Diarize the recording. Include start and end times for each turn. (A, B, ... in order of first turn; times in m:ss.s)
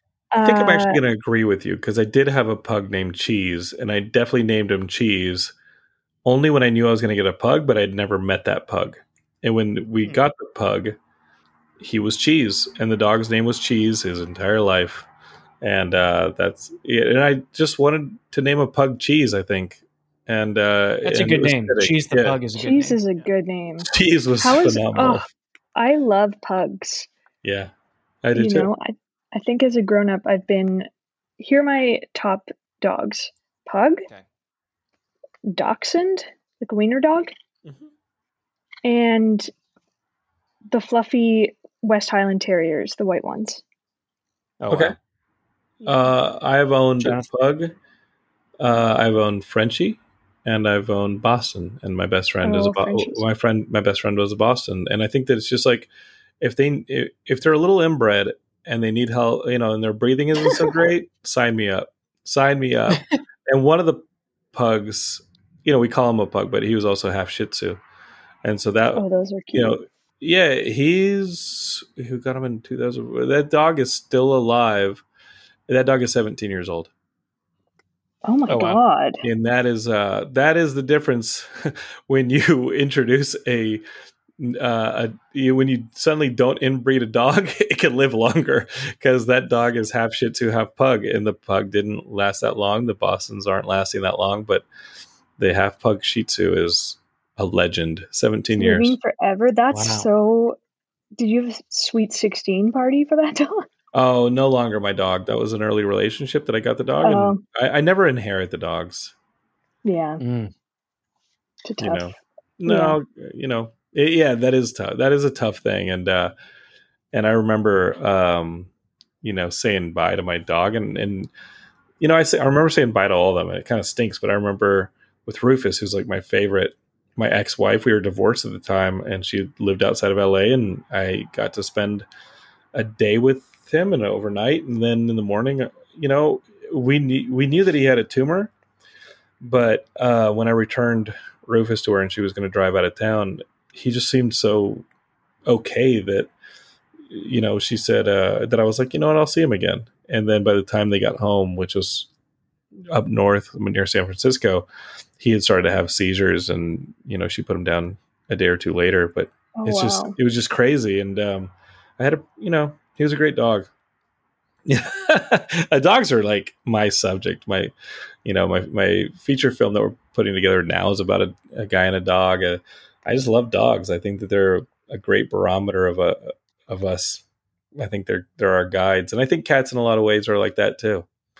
0:00.3-0:01.0 A
0:00.4-0:05.5 B
0:06.2-0:11.0 B
0:11.8-0:15.1 B
0:15.6-0:22.4 B
0:21.0-0:23.3 C
0:22.6-0:27.1 A
0:23.8-0:25.2 B
0:27.4-0:27.7 B
0:28.2-0:28.7 B
0:28.3-0:30.9 A
0:31.4-0:34.1 A
0:35.5-0:37.3 A
0:38.8-0:39.5 A
0:40.7-0:43.6 A
0:44.6-0:44.9 C
0:44.7-0:44.9 B
0:45.8-0:47.7 B
0:47.0-0:47.3 C
0:48.6-0:55.9 B
0:52.4-0:53.2 A
0:56.4-1:07.8 B
1:08.4-1:15.0 B
1:09.0-1:09.8 A
1:15.7-1:16.9 B
1:18.2-1:19.2 A
1:18.5-1:18.8 C
1:19.2-1:23.8 B
1:24.4-1:34.6 B
1:35.4-1:39.0 B
1:38.6-1:40.6 A
1:39.7-1:40.1 C
1:41.2-1:43.7 A
1:43.9-1:49.1 B
1:47.0-1:47.4 A
1:49.8-1:50.2 A
1:50.2-1:50.5 C
1:51.6-1:52.1 A
1:51.8-1:56.3 B
1:52.6-1:53.0 A
1:57.1-1:58.7 B
1:59.2-2:01.3 B
2:02.0-2:12.1 B
2:12.7-2:18.5 B
2:19.4-2:24.8 B
2:25.5-2:26.3 B
2:27.1-2:32.1 B
2:32.9-2:34.7 B
2:35.2-2:43.7 B
2:39.6-2:40.2 A
2:44.6-2:47.7 B
2:48.2-2:57.2 B
2:57.8-3:01.1 B